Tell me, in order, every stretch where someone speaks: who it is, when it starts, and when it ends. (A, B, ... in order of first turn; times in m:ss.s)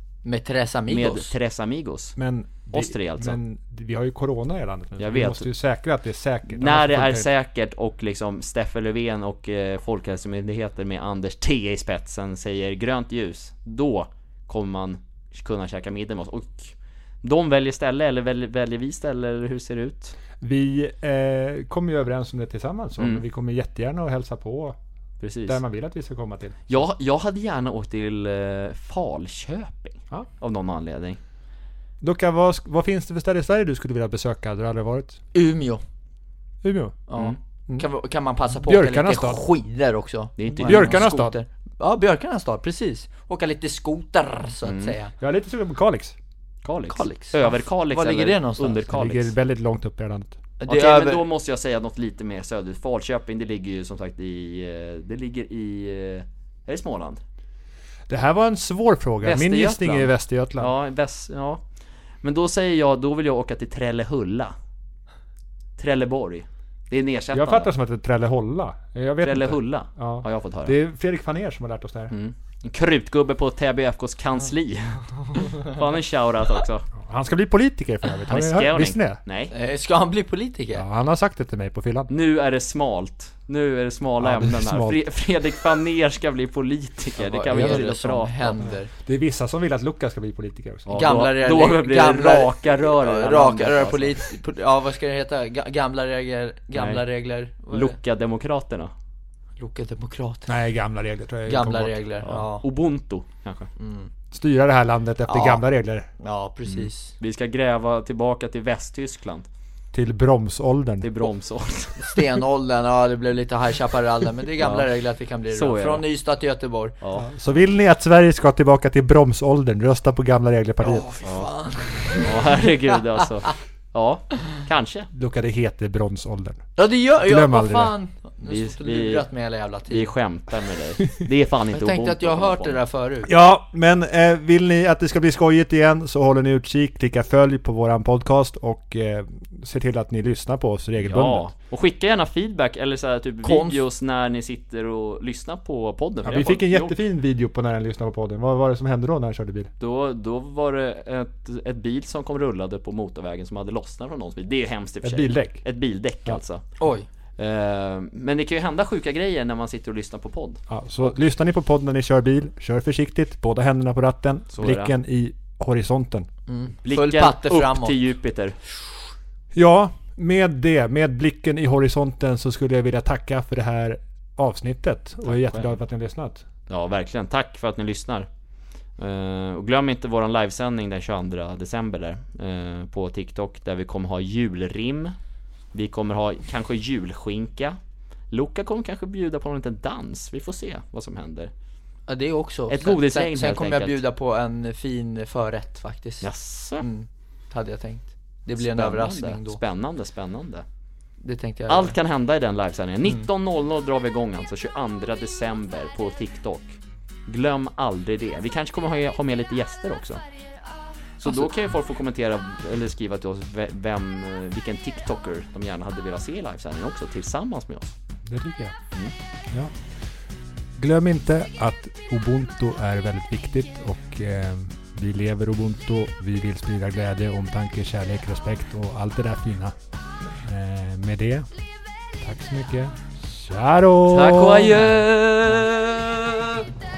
0:00.2-0:01.3 A
0:00.9-0:02.2 B
0:02.2-0:07.3 C
0:02.7-0:03.4 B
0:05.0-0:05.5 B
0:06.5-0:20.2 B
0:20.4-0:24.8 C
0:23.0-0:23.2 B
0:25.2-0:25.6 B
0:25.5-0:26.8 C
0:26.7-0:31.2 B
0:32.0-0:35.2 C
0:35.3-0:35.8 A
0:36.6-0:37.0 C
0:37.1-0:45.1 A
0:38.6-0:39.4 C
0:40.4-0:41.1 B
0:40.6-0:41.3 C
0:44.6-0:45.0 B
0:45.2-0:46.2 C
0:46.6-0:49.3 B
0:46.9-0:48.8 A
0:48.9-0:50.4 C
0:50.6-0:51.2 A
0:50.6-0:57.2 B
0:58.1-1:00.7 C
0:59.2-1:01.6 B
1:02.2-1:04.5 B
1:05.8-1:07.7 B
1:07.3-1:12.1 C
1:09.2-1:10.7 B
1:12.1-1:16.9 B
1:17.0-1:19.2 C
1:18.3-1:19.5 B
1:19.5-1:20.8 A
1:20.8-1:22.1 C
1:22.1-1:28.6 B
1:24.2-1:25.0 C
1:27.2-1:27.9 C
1:27.5-1:28.9 A
1:28.6-1:31.0 C
1:30.9-1:34.2 B
1:30.9-1:38.0 A
1:36.7-1:37.0 B
1:37.7-1:38.9 B
1:39.6-1:40.5 A
1:40.5-1:42.0 C
1:41.5-1:42.6 A
1:42.2-1:43.7 B
1:43.8-1:44.1 A
1:44.3-1:46.1 C
1:45.3-1:45.6 A
1:46.2-1:47.1 A
1:46.7-1:49.5 B
1:49.9-1:51.2 C
1:51.0-1:52.2 B
1:52.0-1:57.0 A
1:54.6-1:54.9 B
1:55.5-1:56.1 B
1:57.2-2:01.2 C
2:00.8-2:02.7 A
2:01.2-2:01.5 B
2:02.2-2:05.1 B
2:05.1-2:06.6 C
2:06.8-2:10.1 A
2:07.2-2:07.9 C
2:08.4-2:09.3 B
2:09.9-2:12.8 B
2:11.7-2:13.3 A
2:13.2-2:21.5 C
2:21.0-2:27.0 B
2:23.4-2:23.8 A
2:26.2-2:29.7 C
2:29.8-2:36.6 B
2:35.0-2:35.6 C
2:36.8-2:37.1 A
2:37.4-2:40.6 B
2:40.7-2:46.3 C
2:44.5-2:44.9 B
2:46.5-2:48.0 A
2:46.8-2:48.6 B
2:49.5-2:56.4 C
2:55.2-2:55.7 B
2:56.7-2:58.3 B
2:59.0-3:05.2 B
3:05.7-3:07.8 B
3:08.3-3:11.5 B
3:12.1-3:16.3 A
3:12.7-3:14.0 B
3:16.2-3:16.9 B
3:16.8-3:19.6 A
3:18.6-3:20.6 B
3:21.2-3:22.0 A
3:21.7-3:30.2 B
3:31.2-3:38.0 B
3:38.3-3:38.8 C
3:40.8-3:49.8 C
3:50.4-3:51.5 C
3:52.2-3:55.0 C
3:54.1-3:56.6 B